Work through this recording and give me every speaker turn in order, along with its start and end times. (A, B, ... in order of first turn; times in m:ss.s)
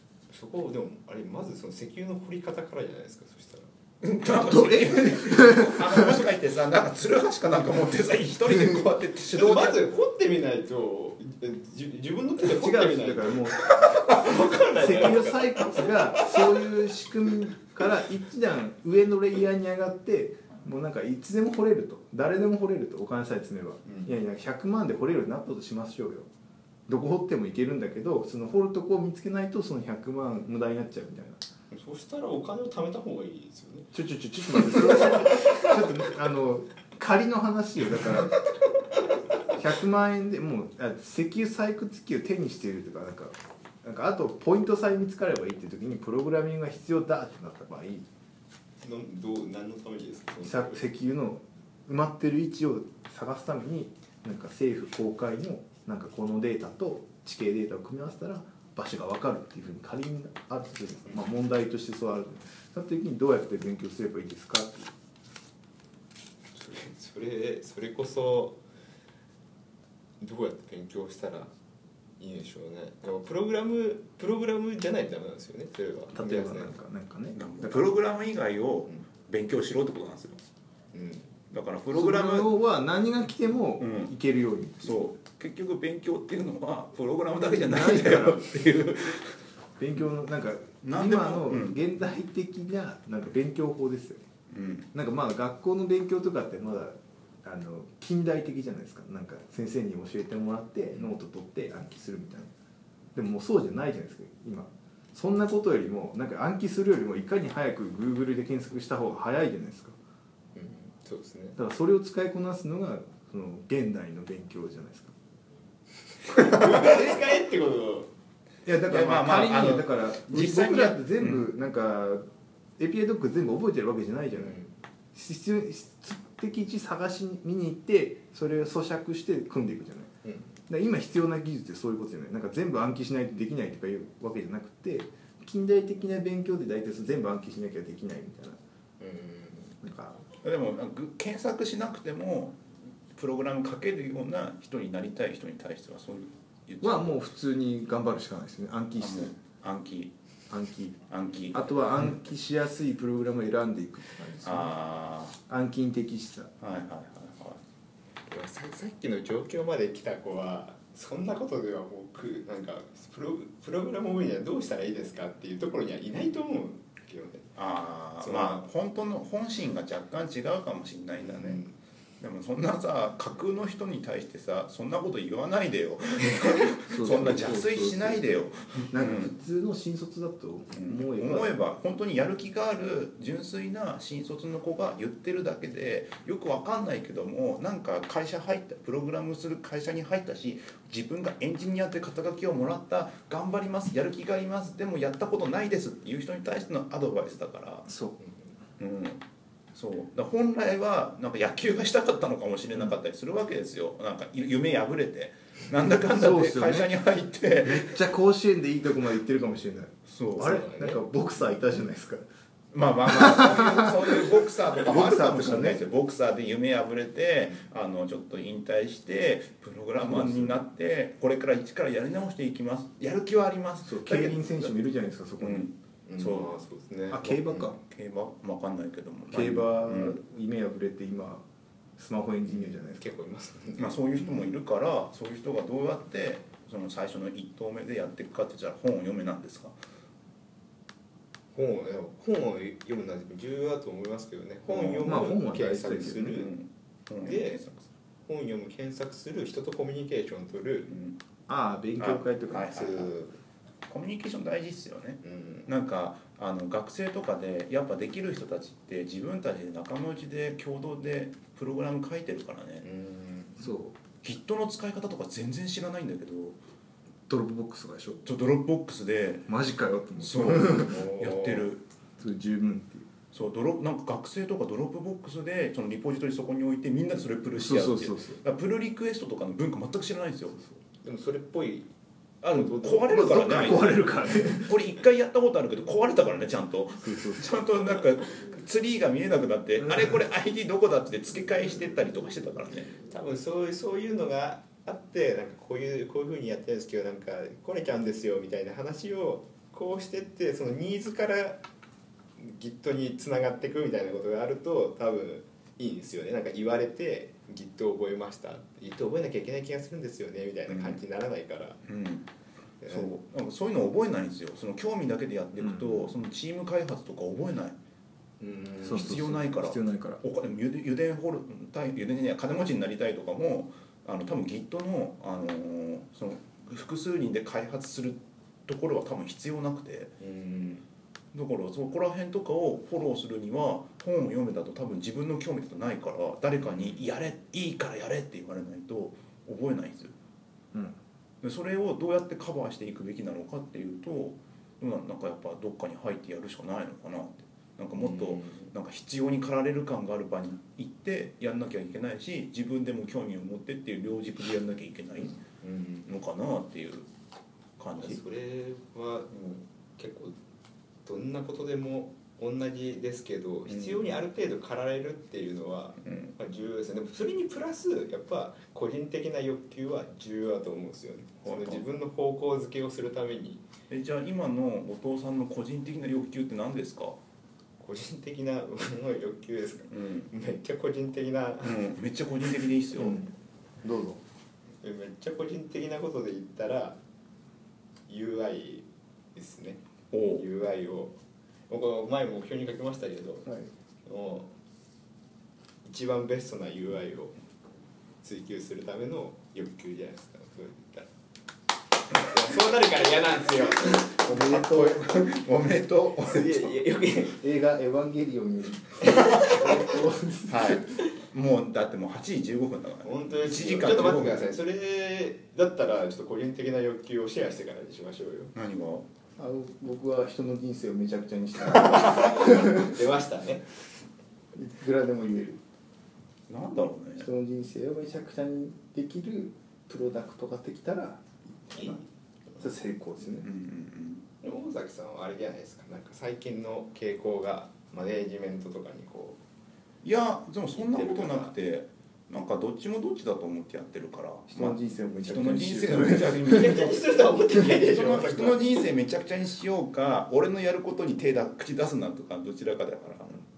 0:00.3-0:03.7 A
0:04.0-0:09.9 B
0:04.4-0:06.2 C
0:08.5-0:08.8 C
0:09.3-0:13.4 A
0:12.4-0:13.7 C
0:13.6-0:14.3 B
0:14.0-0:15.8 A
0:14.7-0:26.3 C
0:23.8-0:24.1 A
0:26.9-0:31.4 C
0:31.7-0:33.9 A
0:33.9-0:38.4 C
0:34.5-0:35.8 A
0:39.5-0:48.0 C
0:48.8-0:50.8 A
0:50.4-1:04.9 C
1:06.5-1:08.6 A
1:10.2-1:11.5 A
1:12.2-1:16.7 A
1:16.1-1:17.9 C
1:17.3-1:20.4 B
1:20.9-1:21.3 A
1:21.5-1:22.5 B
1:21.9-1:25.0 C
1:23.8-1:24.1 B
1:24.8-1:29.4 B
1:27.4-1:28.9 C
1:29.8-1:34.2 C
1:30.8-1:31.8 B
1:34.5-1:34.9 B
1:34.9-1:42.5 C
1:43.1-1:50.0 C
1:50.5-1:51.6 A
1:51.6-1:55.2 C
1:56.2-1:58.1 A
1:56.6-1:57.1 C
1:58.6-2:02.2 C
1:58.9-2:01.4 B
2:02.8-2:04.6 C
2:04.3-2:04.7 A
2:05.1-2:10.1 C
2:10.2-2:10.5 A
2:10.7-2:18.6 C
2:19.0-2:19.8 A
2:19.8-2:20.2 C
2:20.4-2:22.6 B
2:23.2-2:27.2 B
2:26.8-2:29.3 C
2:29.0-2:30.1 B
2:30.5-2:31.0 C
2:31.1-2:31.9 B
2:31.5-2:34.7 C
2:34.4-2:35.4 B
2:35.5-2:36.5 C
2:36.6-2:37.6 B
2:38.3-2:47.5 A
2:47.6-2:51.7 B
2:48.2-2:48.7 A
2:51.2-2:51.7 A
2:52.2-2:59.4 B
2:56.9-2:58.3 C
2:58.9-3:01.5 C
3:00.7-3:17.9 B
3:17.8-3:18.2 C
3:18.8-3:19.2 B
3:19.7-3:28.0 B
3:26.0-3:26.9 C
3:27.6-3:32.2 C
3:30.1-3:30.6 B
3:30.4-3:31.0 A
3:32.7-3:44.8 B
3:33.0-3:35.9 C
3:40.0-3:40.6 C
3:43.8-3:45.7 C
3:45.4-3:46.5 B
3:46.1-3:47.8 A
3:47.1-3:47.8 C
3:47.8-3:50.2 B
3:49.3-3:51.4 C
3:52.0-3:53.1 C
3:52.5-3:54.5 A
3:53.8-3:59.8 B
4:01.5-4:06.5 A
4:04.6-4:05.4 B
4:05.0-4:06.4 C
4:06.2-4:07.9 B
4:07.2-4:07.6 A
4:08.2-4:10.9 A
4:10.9-4:11.2 B
4:11.5-4:12.8 C
4:12.0-4:13.1 B
4:12.7-4:13.4 A
4:13.9-4:22.8 B
4:15.2-4:15.7 A
4:22.8-4:23.7 A
4:23.6-4:23.9 C
4:24.2-4:26.6 B
4:27.3-4:28.2 C
4:28.2-4:29.5 B
4:29.5-4:31.0 C
4:30.2-4:31.8 B
4:30.8-4:31.7 A
4:32.2-4:33.1 C
4:33.3-4:40.6 B
4:37.5-4:38.4 C
4:41.0-4:41.9 A
4:42.4-4:52.9 B
4:42.5-4:43.9 A
4:43.1-4:44.7 C
4:47.0-4:47.6 C
4:53.0-5:01.6 A
5:02.4-5:11.8 A
5:10.7-5:11.0 B
5:11.8-5:12.3 B
5:12.8-5:13.1 A
5:12.9-5:17.8 B
5:15.6-5:16.1 C
5:18.4-5:19.1 A
5:18.8-5:20.2 C
5:18.8-5:30.1 B
5:30.2-5:30.8 A
5:31.3-5:40.1 B
5:41.4-5:55.4 B
5:47.9-5:48.7 A
5:55.3-5:56.1 A
5:56.0-5:57.1 B
5:57.8-5:58.2 B
5:58.0-6:00.4 A
6:01.0-6:13.6 A
6:03.7-6:04.0 B
6:06.0-6:06.3 B
6:11.4-6:11.8 B
6:13.9-6:17.2 B
6:17.8-6:21.9 A
6:19.9-6:20.3 B
6:21.6-6:23.2 B
6:23.0-6:23.3 C
6:23.8-6:24.2 C
6:24.8-6:27.0 A
6:28.1-6:29.8 A
6:30.1-6:30.4 B
6:30.3-6:31.1 A
6:31.7-6:33.5 A
6:34.0-6:34.5 A
6:35.8-6:37.3 A
6:38.2-6:41.1 A
6:42.1-6:44.3 A
6:44.2-6:45.1 C
6:44.2-6:46.7 B
6:46.2-6:47.4 A
6:47.4-6:51.0 C
6:49.0-6:49.7 A
6:50.5-6:54.5 B
6:53.0-6:58.5 A
6:58.5-6:59.0 B
6:59.4-7:03.0 C
7:01.9-7:03.6 A
7:04.5-7:05.6 C
7:06.5-7:07.3 B
7:07.2-7:12.0 C
7:11.7-7:12.0 A
7:12.6-7:13.5 C
7:13.4-7:14.2 B
7:14.4-7:19.4 A
7:20.0-7:33.4 B
7:20.7-7:21.5 A
7:24.5-7:26.8 C
7:26.4-7:28.6 A